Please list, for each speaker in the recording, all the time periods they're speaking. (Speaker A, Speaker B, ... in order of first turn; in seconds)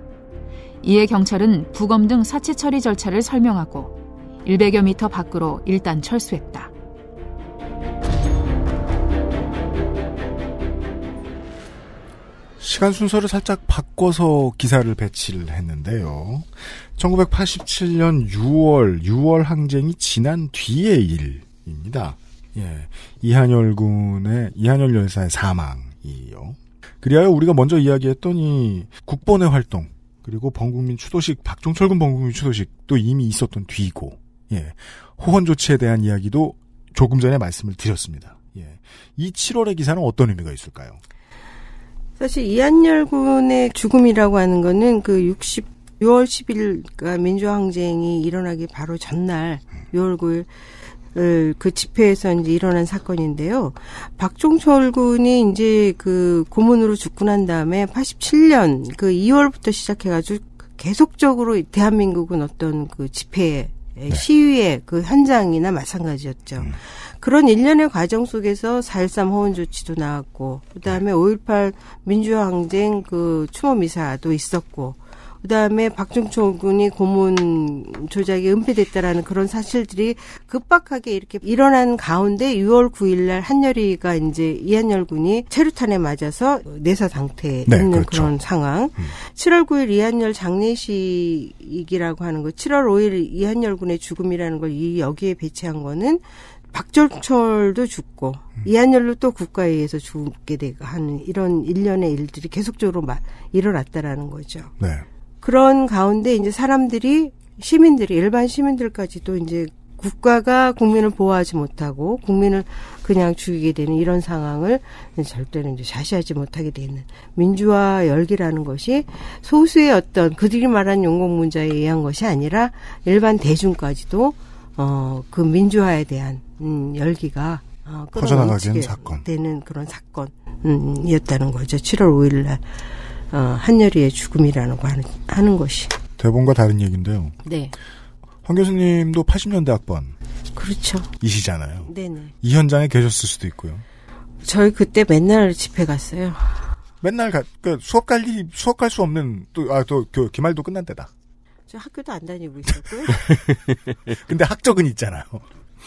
Speaker A: 0.8-3.9, 4.5-6.7
Speaker B: 12.6-41.0, 87.7-88.3, 104.8-105.1, 128.1-129.2, 136.2-137.3, 138.4-140.2, 141.2-141.9, 142.4-143.8, 147.0-151.1, 153.1-153.5, 154.1-155.5
Speaker C: 42.2-50.5, 51.1-104.7, 105.4-136.0, 137.4-137.8, 140.6-141.1, 141.9-142.3, 144.4-146.7, 151.7-153.3